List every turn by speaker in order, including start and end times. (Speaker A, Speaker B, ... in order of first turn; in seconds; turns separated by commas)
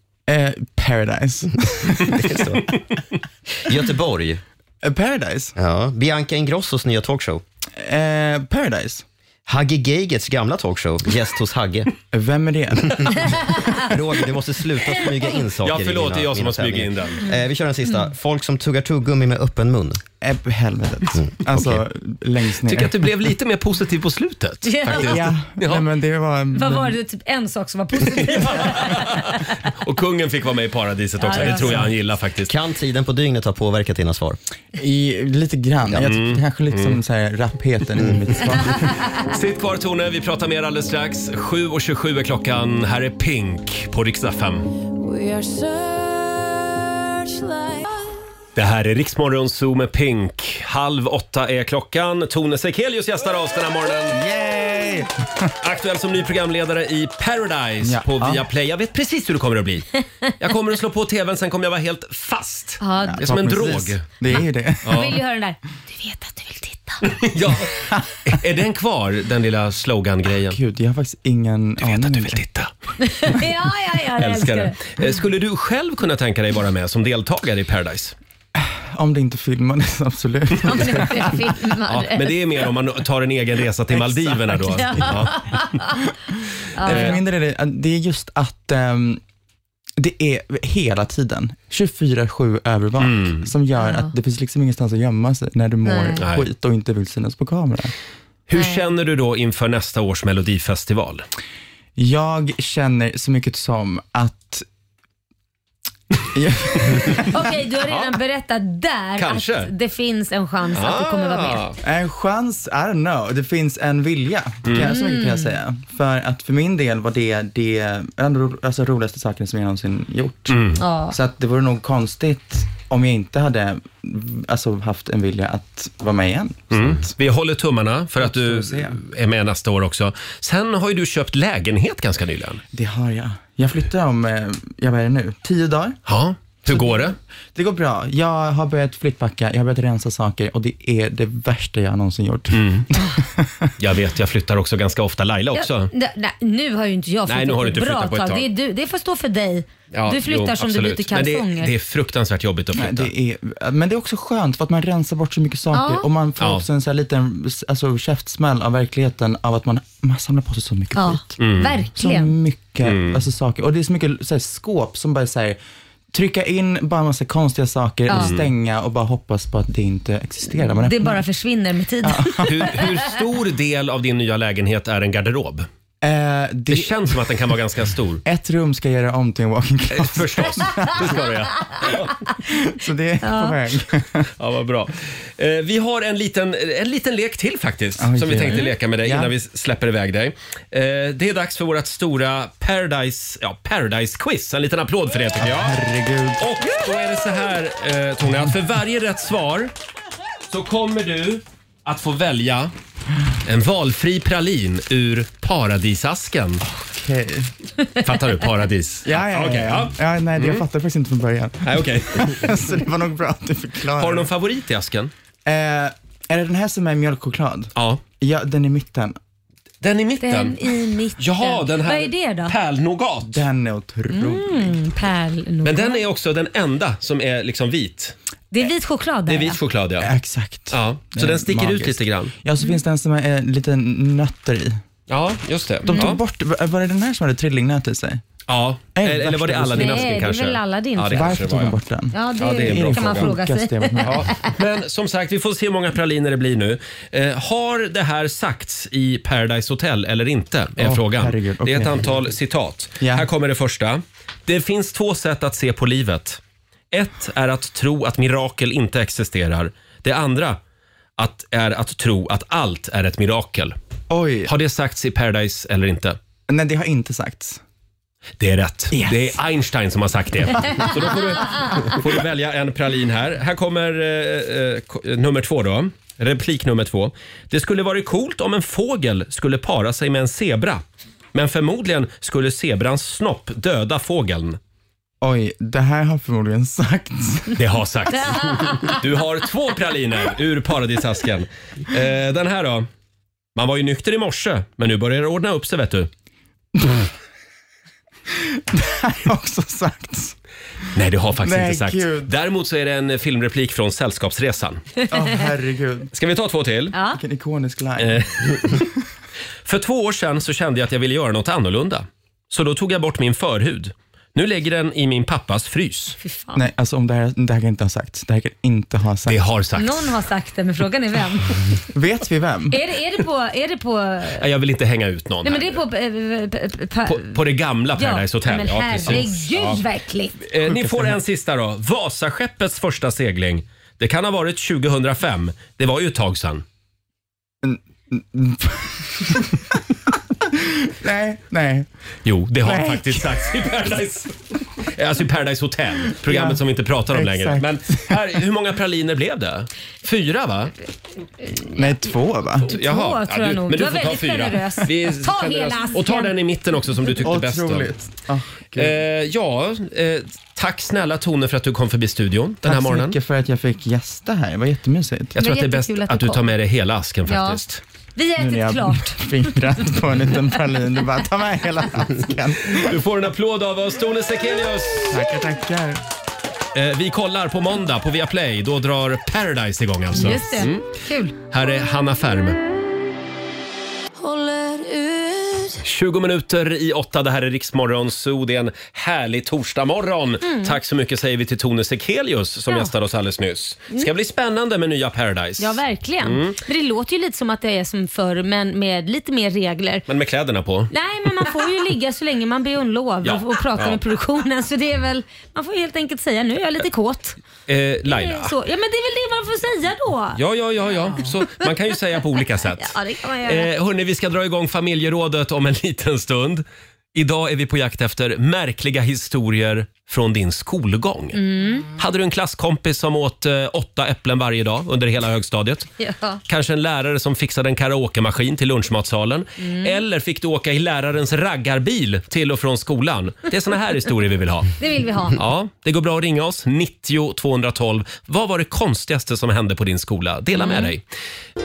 Speaker A: 0.3-2.6, Speaker B: 2.2-2.6, Speaker B: 3.6-4.4, Speaker A: 4.8-5.5, Speaker B: 5.6-7.4, Speaker A: 7.8-9.1, Speaker B: 9.5-11.9, Speaker A: 12.1-13.3, Speaker B: 13.7-20.0, Speaker C: 15.6-17.2, Speaker A: 20.2-23.1, Speaker B: 21.1-21.8, Speaker C: 22.7-25.9, Speaker D: 24.6-25.3, Speaker A: 24.9-27.0, Speaker D: 26.6-29.4, Speaker C: 28.1-29.3, Speaker C: 29.8-32.5, Speaker D: 31.2-31.8, Speaker A: 31.3-31.9, Speaker B: 32.5-34.4, Speaker A: 34.8-39.0, Speaker C: 36.0-37.0, Speaker C: 39.2-44.7, Speaker C: 48.6-54.2, Speaker A: 54.1-55.5, Speaker C: 55.6-65.2, Speaker A: 57.8-58.5, Speaker D: 62.8-63.3, Speaker A: 63.0-65.1, Speaker D: 64.3-67.1, Speaker C: 67.0-67.7, Speaker A: 67.9-68.4, Speaker C: 68.2-70.6, Speaker A: 70.4-72.5, Speaker C: 71.8-72.7, Speaker D: 73.0-74.8, Speaker C: 74.2-78.2, Speaker A: 78.6-81.5, Speaker D: 80.7-82.4, Speaker C: 81.9-85.8, Speaker A: 83.9-85.3, Speaker D: 84.6-85.9, Speaker D: 86.8-87.2, Speaker A: 86.8-89.2, Speaker C: 86.8-87.2, Speaker A: 90.0-97.9, Speaker C: 93.0-93.5, Speaker D: 93.8-94.1, Speaker D: 95.8-96.2, Speaker C: 96.2-96.4, Speaker C: 98.5-101.2, Speaker D: 98.6-98.8, Speaker A: 102.0-104.7, Speaker A: 106.3-107.4, Speaker D: 107.1-111.6, Speaker C: 109.2-109.7, Speaker C: 110.8-111.8, Speaker A: 111.8-127.1, Speaker C: 114.7-114.9, Speaker D: 114.8-115.5, Speaker C: 120.5-120.8, Speaker D: 120.8-121.2, Speaker C: 126.7-132.6, Speaker A: 128.2-129.0, Speaker A: 132.7-136.0, Speaker C: 136.1-137.2, Speaker A: 137.6-143.7, Speaker C: 142.5-142.9, Speaker C: 143.8-145.9, Speaker D: 145.6-151.7, Speaker C: 147.3-148.5, Speaker C: 149.9-153.1, Speaker A: 152.8-161.4, Speaker D: 155.7-156.1, Speaker C: 156.4-156.7, Speaker D: 160.9-162.3, Speaker C: 161.4-161.8, Speaker A: 162.0-165.6, Speaker C: 162.8-163.2, Speaker A: 166.1-171.2, Speaker D: 168.1-168.3, Speaker C: 168.2-168.5, Speaker D: 170.6-173.0, Speaker A: 172.0-172.8, Speaker C: 172.4-175.7, Speaker A: 176.0-177.3, Speaker C: 176.7-178.2, Speaker A: 178.2-181.3, Speaker C: 179.9-182.2, Speaker A: 182.4-184.3, Speaker D: 183.2-183.6, Speaker C: 184.4-195.8, Speaker A: 188.0-189.3, Speaker A: 195.4-196.4, Speaker C: 196.4-199.7, Speaker C: 200.5-202.7, Speaker C: 203.4-206.6, Speaker A: 206.7-207.5, Speaker C: 208.0-210.6, Speaker A: 209.1-214.3, Speaker C: 211.6-212.5, Speaker C: 214.0-215.1, Speaker A: 215.4-219.2, Speaker C: 217.8-218.0, Speaker C: 219.8-220.6, Speaker D: 220.2-222.5, Speaker C: 221.2-223.4, Speaker A: 223.2-224.8, Speaker D: 224.1-226.0, Speaker C: 225.7-228.2, Speaker D: 228.5-229.6, Speaker C: 229.3-230.1, Speaker A: 230.0-234.8, Speaker C: 230.7-232.3, Speaker C: 235.1-236.2, Speaker A: 235.8-238.2, Speaker D: 235.9-236.2, Speaker C: 238.5-241.8, Speaker A: 238.9-240.2, Speaker D: 239.8-241.4, Speaker A: 241.1-244.3, Speaker D: 242.1-244.4, Speaker C: 242.4-243.3, Speaker C: 244.0-256.4, Speaker A: 250.8-252.2, Speaker A: 253.0-253.3, Speaker C: 256.9-260.6, Speaker C: 261.2-263.8, Speaker A: 264.1-264.5, Speaker C: 264.5-266.2, Speaker A: 266.5-267.6, Speaker C: 268.4-280.8, Speaker A: 268.9-269.4, Speaker C: 281.3-284.6, Speaker A: 285.2-287.6, Speaker C: 287.6-292.9, Speaker D: 288.1-289.0, Speaker C: 293.6-296.1, Speaker A: 298.7-300.4, Speaker C: 300.9-305.0, Speaker A: 301.4-302.3, Speaker A: 305.1-306.1, Speaker C: 306.1-307.0, Speaker D: 306.9-307.2, Speaker A: 307.1-308.8, Speaker C: 308.0-308.9, Speaker C: 309.6-316.2, Speaker D: 316.2-316.6, Speaker A: 316.6-319.4, Speaker C: 319.3-320.1, Speaker D: 319.8-321.6, Speaker A: 321.9-322.8, Speaker D: 322.7-324.4, Speaker C: 324.4-325.8, Speaker D: 325.4-327.4, Speaker C: 327.1-329.8, Speaker D: 328.0-330.4, Speaker C: 330.5-336.6, Speaker A: 330.6-331.2, Speaker A: 337.6-339.8, Speaker A: 340.5-341.9, Speaker C: 342.2-350.7, Speaker A: 342.6-343.7, Speaker A: 346.2-348.2, Speaker A: 351.7-352.7, Speaker C: 352.7-357.9, Speaker D: 352.7-356.3, Speaker A: 357.2-359.0, Speaker C: 358.8-363.2, Speaker A: 362.6-365.4, Speaker D: 365.4-366.4, Speaker C: 365.4-367.8, Speaker D: 367.3-367.6, Speaker D: 368.2-369.2, Speaker A: 368.4-373.0, Speaker C: 372.8-375.2, Speaker A: 375.1-376.0, Speaker C: 376.8-380.9, Speaker D: 380.1-381.4, Speaker C: 381.5-382.6, Speaker D: 384.2-385.8, Speaker C: 385.8-396.6, Speaker D: 390.4-390.8, Speaker D: 395.6-400.1, Speaker C: 400.1-400.9, Speaker D: 400.9-407.4, Speaker C: 403.2-404.0, Speaker C: 407.7-408.5, Speaker D: 408.1-410.4, Speaker C: 410.4-421.4, Speaker D: 412.8-413.7, Speaker D: 421.3-421.9, Speaker C: 421.9-425.9, Speaker D: 426.0-426.4, Speaker C: 426.5-434.7, Speaker D: 429.6-430.0, Speaker D: 434.8-435.4, Speaker C: 435.4-441.0, Speaker D: 440.6-440.9